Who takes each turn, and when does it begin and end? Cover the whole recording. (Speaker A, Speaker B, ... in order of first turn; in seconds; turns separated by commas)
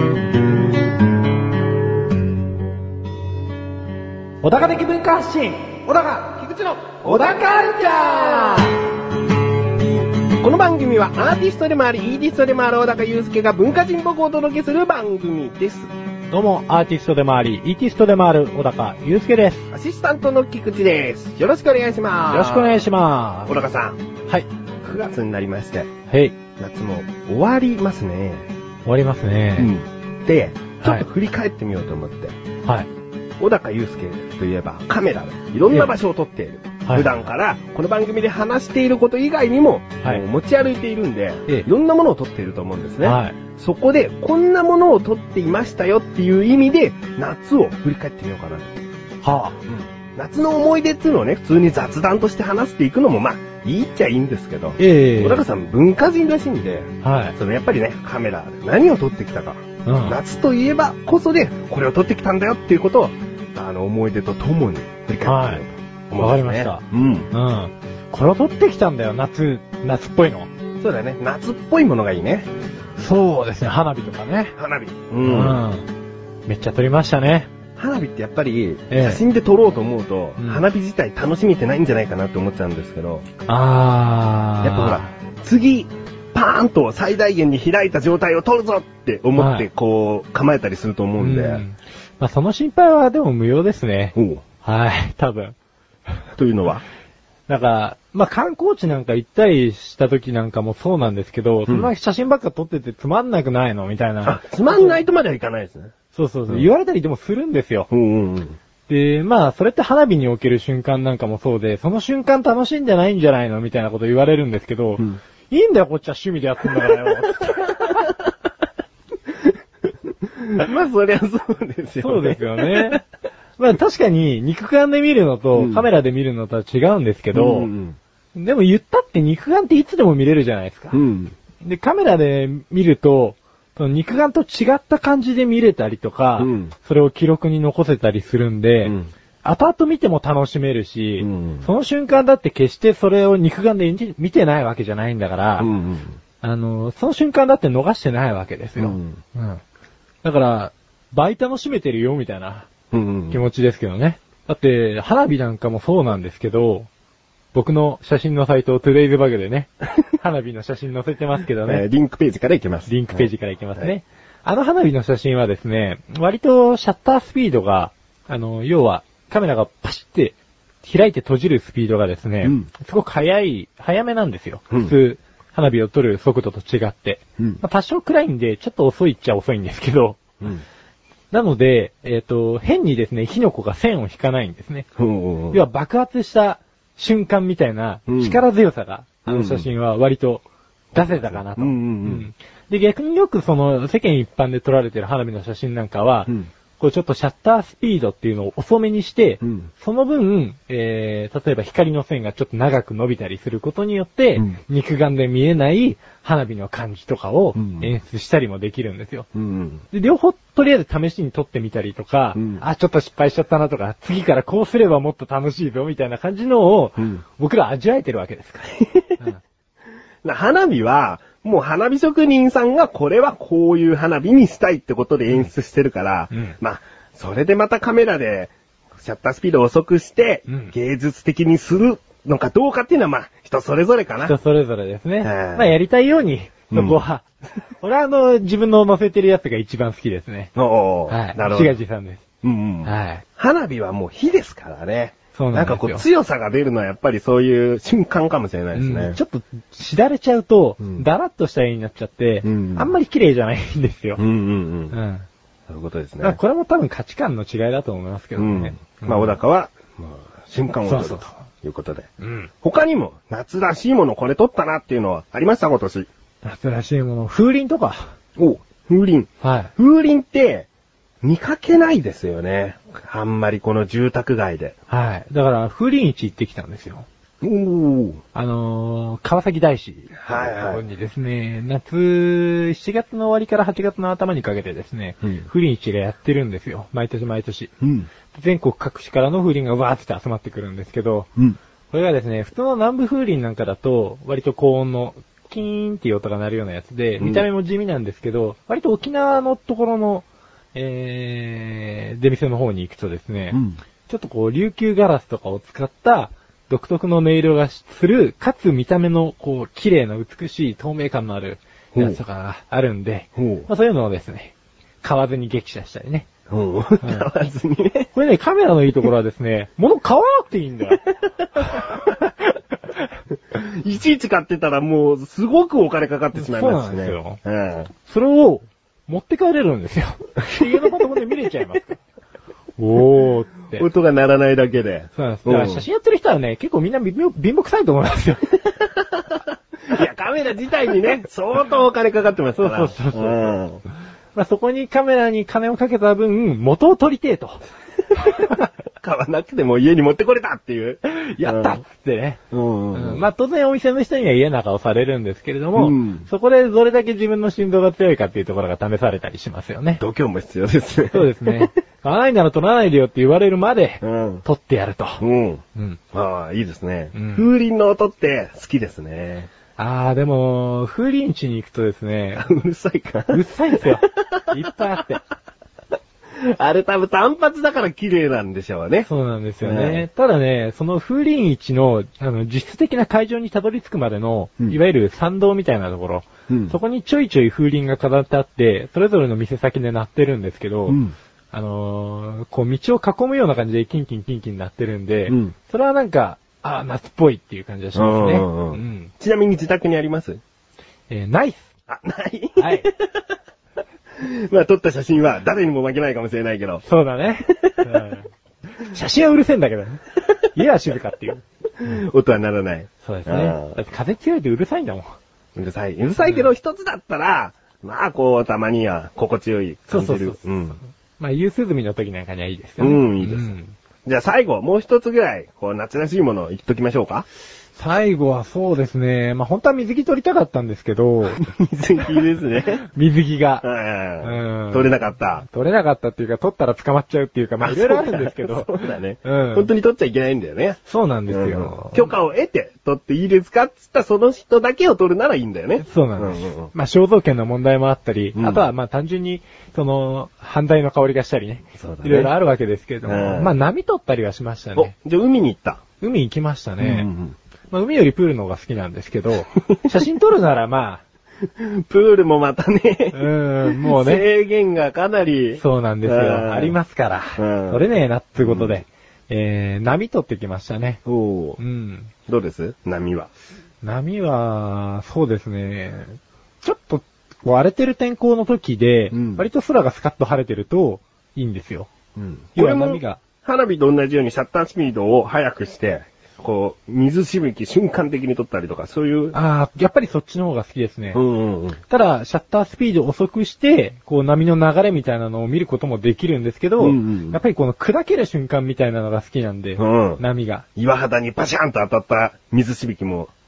Speaker A: 4.4-5.8, Speaker B: 5.9-7.4, Speaker A: 7.1-8.7, Speaker B: 10.4-15.9, Speaker A: 16.3-19.7, Speaker B: 19.7-22.8, Speaker A: 22.3-23.5, Speaker B: 23.5-24.0, Speaker B: 24.8-25.9, Speaker A: 26.1-26.4, Speaker B: 26.6-28.5, Speaker A: 28.9-29.7, Speaker B: 29.6-32.4, Speaker B: 33.4-48.7, Speaker A: 36.9-37.2, Speaker A: 43.0-43.4, Speaker A: 49.2-49.6, Speaker B: 49.7-67.3, Speaker A: 54.8-55.4, Speaker A: 57.0-57.4, Speaker A: 59.9-60.2, Speaker A: 65.2-65.6, Speaker A: 66.2-70.5, Speaker B: 70.8-72.5, Speaker A: 73.0-74.6, Speaker B: 74.6-75.6, Speaker A: 75.2-75.9, Speaker A: 76.5-77.5, Speaker B: 77.8-83.3, Speaker A: 78.9-79.2, Speaker A: 80.4-80.6, Speaker A: 83.5-85.1, Speaker B: 84.6-91.6, Speaker A: 89.4-89.7, Speaker A: 91.2-95.5, Speaker B: 94.2-94.4, Speaker B: 96.4-96.8, Speaker A: 97.5-105.0, Speaker B: 104.2-105.9, Speaker A: 106.1-107.9, Speaker B: 107.9-108.6, Speaker A: 108.9-118.0, Speaker B: 117.7-118.1, Speaker B: 120.3-123.0, Speaker A: 122.0-123.0, Speaker A: 123.6-127.7, Speaker B: 125.5-125.8, Speaker B: 127.3-128.0, Speaker A: 128.3-131.0, Speaker B: 130.9-131.3, Speaker A: 131.6-145.7, Speaker B: 136.4-136.7, Speaker B: 138.8-139.1, Speaker B: 141.2-141.7, Speaker B: 145.6-146.2, Speaker A: 146.4-149.6, Speaker B: 148.8-149.2, Speaker A: 150.2-152.7, Speaker B: 152.9-153.4, Speaker A: 153.3-156.9, Speaker A: 157.5-161.8, Speaker B: 161.7-163.9, Speaker A: 162.9-180.4, Speaker B: 172.4-172.7, Speaker A: 181.3-184.9, Speaker B: 185.0-185.6, Speaker A: 185.5-190.4, Speaker B: 188.1-188.4, Speaker B: 189.3-189.7, Speaker B: 190.9-192.3, Speaker A: 190.9-209.3, Speaker B: 199.4-199.7, Speaker B: 207.6-207.9, Speaker B: 209.3-209.8, Speaker A: 209.9-219.4, Speaker B: 212.4-212.6, Speaker B: 217.0-217.2, Speaker B: 218.8-219.2, Speaker B: 220.2-234.4, Speaker A: 226.3-226.6, Speaker A: 230.5-230.7, Speaker A: 234.2-237.2, Speaker B: 235.2-235.7, Speaker B: 236.7-237.0, Speaker A: 237.8-240.5, Speaker B: 240.6-241.8, Speaker A: 241.1-242.2, Speaker B: 242.4-249.2, Speaker A: 242.8-243.2, Speaker A: 245.3-246.0, Speaker A: 248.7-254.2, Speaker B: 250.8-251.1, Speaker B: 252.4-252.9, Speaker B: 254.2-254.9, Speaker A: 254.9-255.3, Speaker B: 255.7-256.4, Speaker A: 256.2-259.4, Speaker B: 258.4-262.1, Speaker A: 260.9-261.4, Speaker A: 262.2-262.5, Speaker B: 262.6-266.1, Speaker A: 266.4-268.1, Speaker B: 268.4-270.7, Speaker A: 269.4-269.7, Speaker B: 271.2-274.8, Speaker A: 274.9-277.1, Speaker B: 277.4-278.2, Speaker A: 278.3-287.7, Speaker B: 280.1-280.8, Speaker B: 287.8-288.1, Speaker A: 288.3-291.3, Speaker A: 291.9-316.3, Speaker B: 297.2-297.4, Speaker B: 303.5-303.8, Speaker B: 313.4-313.7, Speaker B: 316.5-318.1, Speaker A: 318.1-323.0, Speaker B: 321.6-322.0, Speaker B: 323.5-327.9, Speaker A: 326.3-327.4, Speaker A: 328.1-332.0, Speaker A: 332.8-333.9, Speaker B: 333.8-335.8, Speaker A: 335.2-338.4, Speaker B: 339.4-343.8, Speaker A: 342.6-343.6, Speaker A: 344.4-347.6, Speaker B: 349.0-351.8, Speaker A: 351.1-352.4, Speaker B: 352.5-353.3, Speaker A: 352.9-360.0, Speaker B: 355.8-356.3, Speaker B: 360.0-361.7, Speaker A: 361.1-365.2, Speaker B: 364.0-364.4, Speaker B: 365.2-369.5, Speaker A: 367.1-367.5, Speaker A: 369.8-372.4, Speaker B: 372.4-373.9, Speaker A: 373.3-375.2, Speaker B: 376.4-379.1, Speaker A: 379.1-391.0, Speaker B: 379.6-380.1, Speaker B: 386.5-386.8, Speaker B: 390.9-391.1, Speaker A: 391.5-399.1, Speaker B: 395.3-395.5, Speaker B: 397.9-400.4, Speaker A: 401.1-401.7, Speaker B: 401.9-403.2, Speaker A: 402.6-402.9, Speaker B: 404.2-406.8, Speaker A: 406.9-408.3, Speaker B: 407.5-408.0, Speaker A: 408.8-412.1, Speaker B: 411.8-413.8, Speaker A: 413.0-415.2, Speaker B: 415.6-420.8, Speaker A: 419.9-420.4, Speaker A: 421.2-423.8, Speaker B: 422.8-423.5, Speaker B: 424.1-427.3, Speaker A: 427.8-431.4, Speaker B: 431.4-432.9, Speaker A: 432.9-433.6, Speaker B: 433.6-435.4, Speaker A: 434.2-439.7, Speaker B: 437.6-446.7, Speaker A: 440.9-442.1, Speaker A: 445.8-454.9, Speaker B: 448.4-448.7, Speaker B: 451.8-452.3, Speaker B: 453.1-453.5, Speaker B: 454.8-455.8, Speaker A: 456.0-457.1, Speaker B: 456.8-457.4, Speaker A: 457.7-461.0, Speaker B: 461.6-466.8, Speaker A: 463.1-464.3, Speaker A: 465.6-471.0, Speaker B: 467.4-467.9, Speaker B: 468.4-468.8, Speaker B: 471.1-471.6, Speaker A: 471.6-472.1, Speaker B: 472.3-473.3, Speaker A: 473.8-481.9, Speaker B: 479.1-479.4, Speaker B: 482.2-489.4, Speaker A: 482.6-483.2, Speaker A: 489.3-491.2, Speaker B: 491.1-491.8, Speaker A: 491.9-500.7, Speaker B: 496.8-497.4, Speaker B: 499.8-500.2, Speaker B: 500.8-503.3